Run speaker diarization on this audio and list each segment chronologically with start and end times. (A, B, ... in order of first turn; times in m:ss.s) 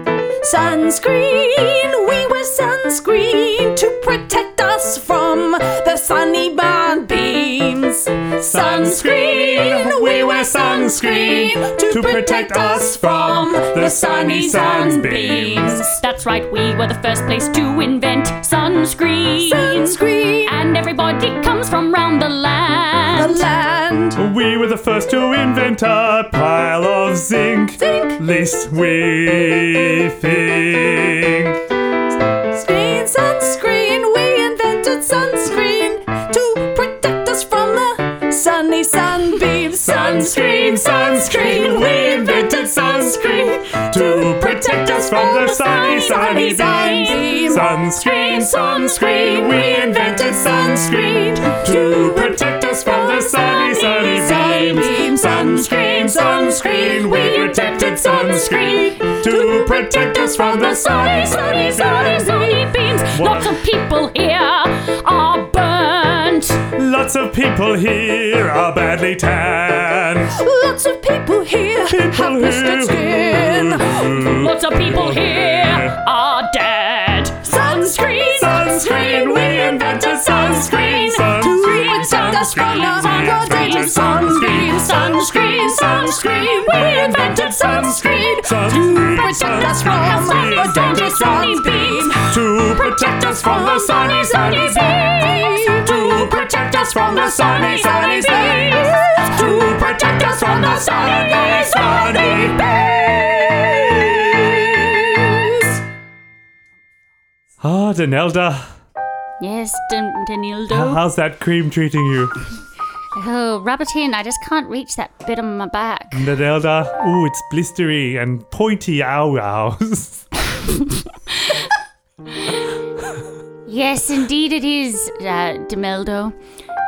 0:00.4-0:15.1 A
0:08.5-0:16.0 B
0:14.5-0:23.4 C
0:19.4-0:20.5 A
0:23.1-0:24.2 A
0:24.2-0:31.6 B
0:27.8-0:28.2 A
0:32.5-0:57.4 A
0:39.7-1:02.2 B
0:45.2-0:47.8 C
0:55.7-1:06.6 C
1:01.0-1:02.7 A
1:03.1-1:03.6 B
1:06.8-1:10.4 B
1:10.4-1:14.1 A
1:11.9-1:16.0 B
1:14.1-1:21.4 C
1:17.5-1:19.2 A
1:18.4-1:44.9 B
1:21.3-1:32.3 A
1:22.1-1:28.0 C
1:30.3-1:32.2 C
1:32.7-1:35.7 C
1:33.2-1:45.7 A
1:37.6-1:38.9 C
1:47.6-1:48.7 B
1:49.4-1:51.0 C
1:50.7-1:52.3 B
1:53.2-1:56.3 C
1:56.1-2:00.3 B
2:03.7-2:06.3 C